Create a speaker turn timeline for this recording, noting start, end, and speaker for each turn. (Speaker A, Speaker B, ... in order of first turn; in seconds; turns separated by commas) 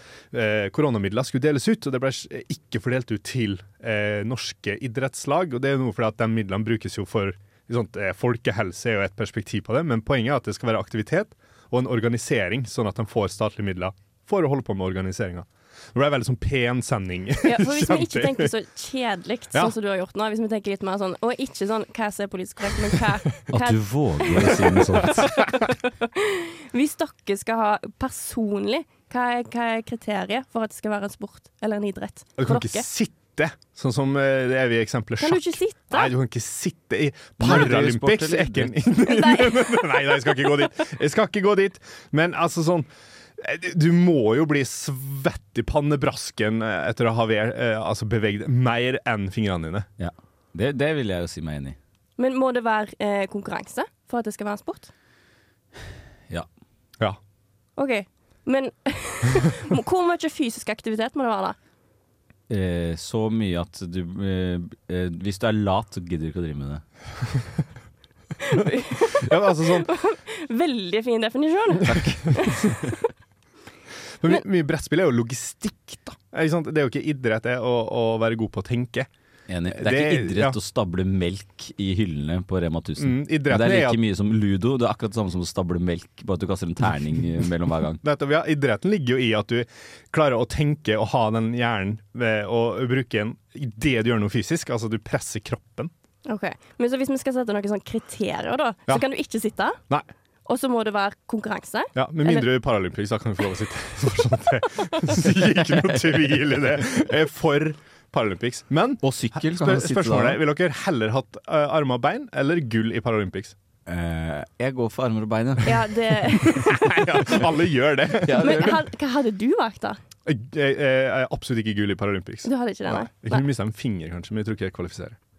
Speaker A: 0.3-18.5, Speaker B: 17.4-32.9, Speaker C: 23.5-25.3, Speaker A: 25.2-25.6, Speaker A: 32.4-49.9, Speaker B: 35.2-36.1, Speaker C: 37.4-38.8, Speaker B: 39.0-40.7, Speaker C: 50.0-51.8, Speaker B: 52.2-54.9, Speaker B: 57.8-61.6, Speaker C: 62.5-66.8, Speaker B: 68.4-72.7, Speaker A: 69.2-69.9, Speaker C: 71.9-72.8, Speaker A: 74.2-79.1, Speaker C: 79.5-88.0, Speaker A: 79.7-80.6, Speaker A: 83.0-84.0, Speaker A: 88.0-95.9, Speaker B: 96.3-99.8, Speaker B: 100.5-102.5, Speaker A: 102.0-113.5, Speaker C: 109.0-110.4, Speaker C: 113.9-115.9, Speaker B: 115.6-117.3, Speaker A: 116.5-118.8, Speaker C: 118.2-118.8, Speaker B: 118.4-120.0, Speaker A: 120.2-125.2, Speaker B: 122.5-123.5